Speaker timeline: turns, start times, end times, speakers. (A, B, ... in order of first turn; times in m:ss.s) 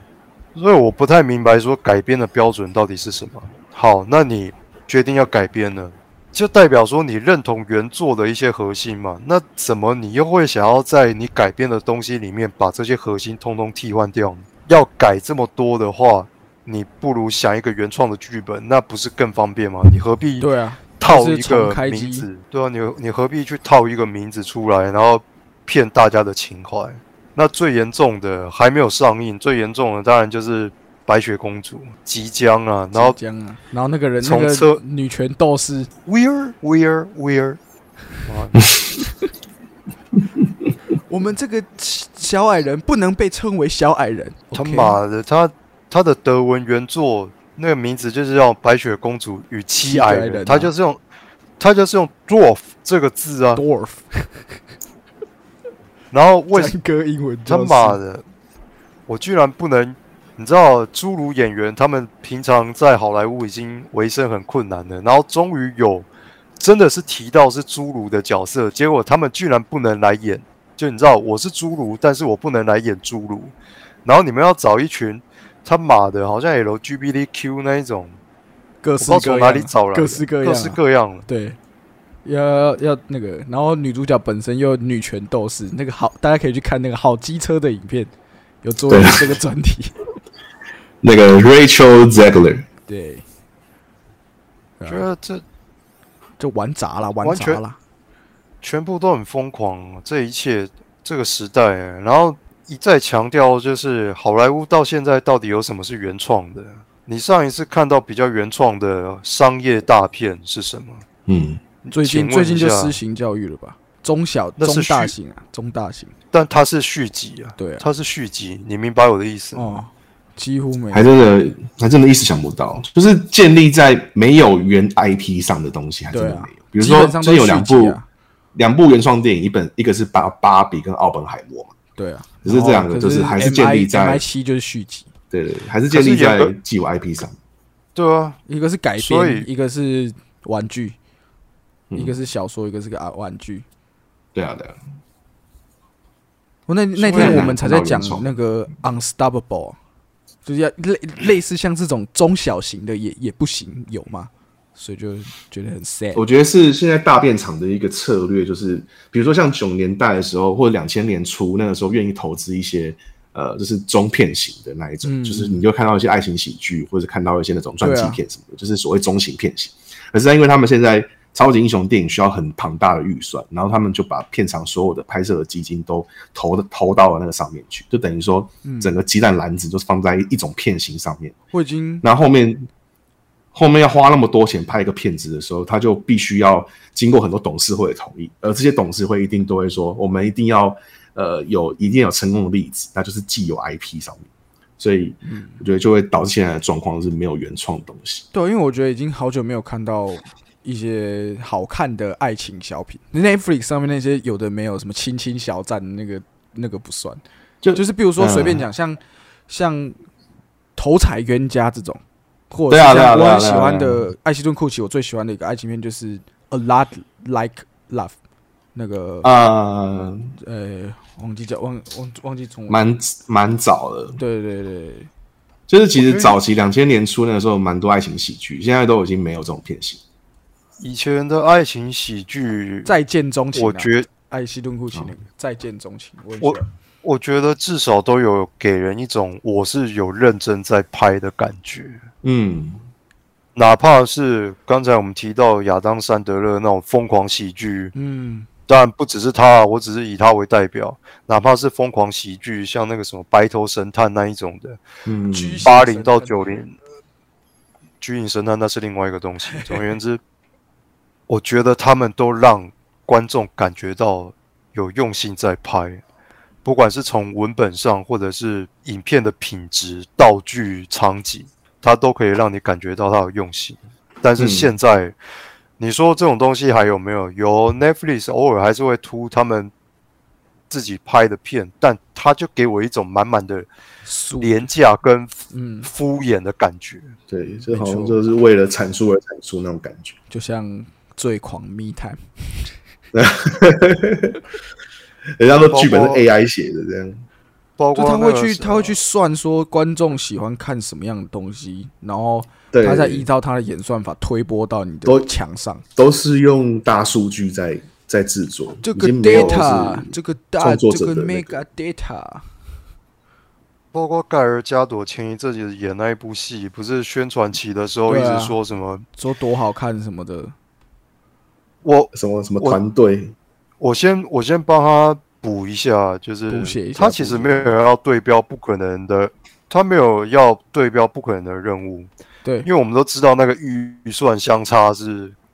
0:00.5-0:20.5 A
0:20.4-0:22.3 B
0:21.0-0:33.2 A
0:32.9-0:35.9 B
0:34.2-0:34.8 A
0:36.0-0:37.6 A
0:38.2-0:38.7 A
0:41.1-0:45.0 B
0:44.5-0:51.0 A
0:49.8-0:50.7 B
0:51.6-0:53.6 A
0:53.6-0:54.3 B
0:56.1-0:56.8 A
0:56.5-0:58.0 B
0:57.5-0:58.2 A
0:59.1-1:06.1 A
1:06.6-1:13.5 A
1:14.0-1:18.2 A
1:18.8-1:21.6 B
1:19.0-1:21.2 A
1:22.2-1:28.1 B
1:28.6-1:29.9 B
1:28.9-1:29.2 C
1:31.0-1:32.6 C
1:32.9-1:33.2 B
1:34.8-1:35.0 B
1:34.9-1:35.4 A
1:36.4-1:37.8 B
1:37.2-1:37.6 A
1:38.6-1:51.0 A
1:51.3-1:51.6 C
1:51.8-1:53.0 A
1:51.9-1:56.1 B
1:54.6-1:55.1 A
1:56.3-1:59.8 A
1:57.6-1:57.8 B
1:59.5-2:01.1 B
2:00.9-2:08.0 C
2:06.1-2:08.0 B
2:08.5-2:11.7 C
2:12.0-2:15.1 B
2:12.4-2:14.2 C
2:15.3-2:17.4 C
2:15.9-2:16.5 A
2:18.0-2:18.4 A
2:18.5-2:21.0 B
2:19.0-2:19.5 A
2:21.9-2:23.6 B
2:24.3-2:24.8 C
2:26.7-2:29.8 B
2:27.0-2:27.5 A
2:27.1-2:28.3 C
2:30.4-2:36.2 B
2:36.1-3:01.3 C
2:45.0-2:45.6 B
2:47.8-2:48.2 B
2:58.6-2:59.0 B
3:01.5-3:02.0 B
3:02.0-3:02.7 C
3:03.5-3:14.3 C
3:14.8-3:18.2 C
3:15.2-3:15.6 B
3:18.3-3:27.2 B
3:27.6-3:28.7 C
3:27.7-3:30.0 B
3:30.8-3:38.2 B
3:32.7-3:34.0 C
3:38.7-3:39.3 B
3:39.2-3:40.3 C
3:40.4-3:42.8 B
3:42.7-3:44.2 C
3:44.2-3:45.1 B
3:45.7-3:50.0 C
3:46.0-3:46.4 A
3:50.8-3:52.9 A
3:52.8-3:56.7 B
3:53.5-3:54.1 A
3:56.4-4:02.0 A
4:02.2-4:02.8 C
4:03.6-4:07.9 A
4:07.9-4:08.5 B
4:08.7-4:14.8 A
4:15.0-4:15.7 C
4:15.3-4:16.4 B
4:15.6-4:16.7 A
4:18.0-4:20.2 A
4:19.5-4:19.8 B
4:21.3-4:26.0 A
4:26.6-4:35.1 A
4:34.4-4:34.7 C
4:35.8-4:39.7 A
4:40.7-4:43.7 A
4:44.0-4:44.6 B
4:44.4-4:47.2 A
4:45.5-4:45.9 B
4:47.3-4:50.1 C
4:47.7-4:48.2 B
4:50.3-4:52.2 B
4:53.1-4:54.4 C
4:55.4-4:57.2 C
4:55.7-4:56.2 A
4:57.8-4:58.9 A
4:57.9-5:05.8 B
5:02.7-5:03.3 C
5:06.0-5:11.6 C
5:08.8-5:12.5 B
5:13.9-5:19.0 A
5:18.1-5:18.6 B
5:19.2-5:20.5 B
5:21.8-5:22.8 A
5:22.1-5:23.3 C
5:23.8-5:32.1 A
5:26.5-5:27.6 B
5:32.6-5:35.4 A